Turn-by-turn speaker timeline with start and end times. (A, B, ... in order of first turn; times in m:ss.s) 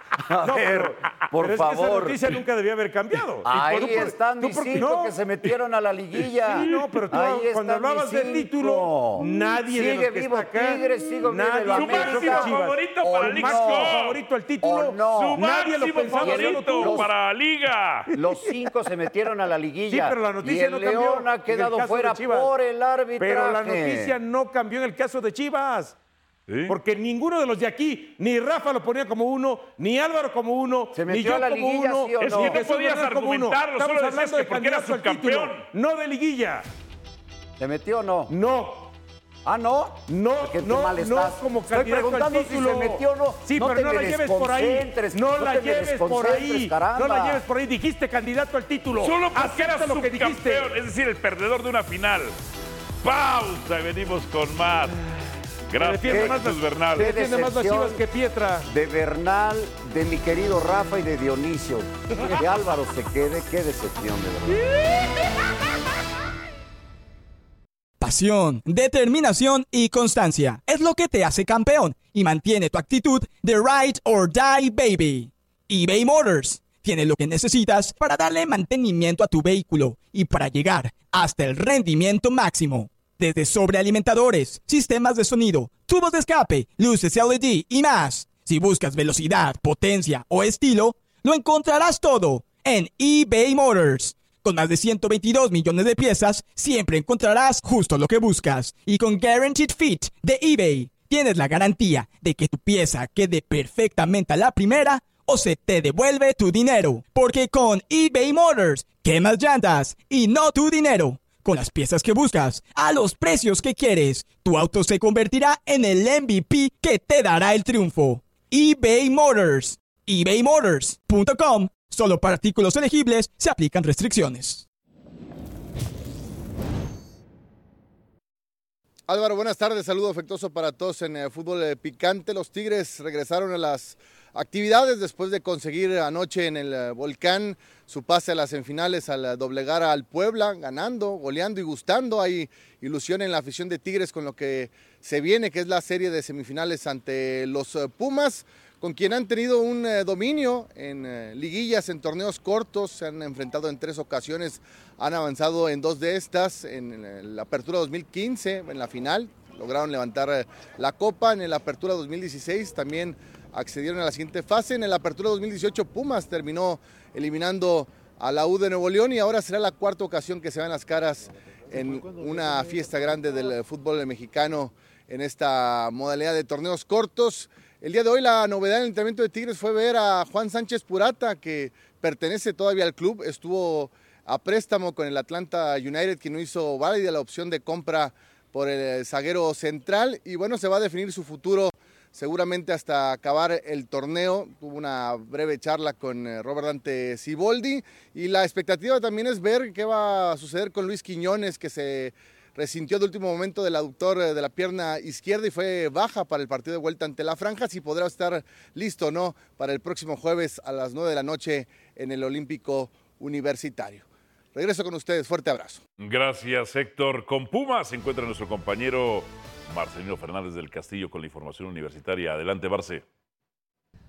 0:00.2-0:02.2 A
0:00.4-0:05.2 B
0:03.4-0:14.0 A
0:06.5-0:07.0 C
0:06.6-0:17.1 B
0:11.7-0:14.2 C
0:14.6-0:15.4 A
0:15.1-0:18.1 C
0:16.2-0:17.1 A
0:18.1-0:24.2 A
0:19.9-0:22.5 B
0:23.2-0:26.0 B
0:26.5-0:26.8 C
0:26.7-0:36.6 B
0:30.9-0:32.6 A
0:32.2-0:35.7 C
0:37.6-0:38.3 A
0:38.3-0:38.9 B
0:39.4-0:47.4 A
0:40.1-0:50.7 B
0:49.0-0:52.4 C
0:53.0-0:55.1 C
0:55.7-0:57.1 C
0:55.7-0:58.7 B
0:56.1-0:56.4 A
0:57.0-0:58.0 A
0:58.6-1:04.6 A
1:08.0-2:04.6 D
2:09.1-3:35.8 E
3:36.0-3:43.0 C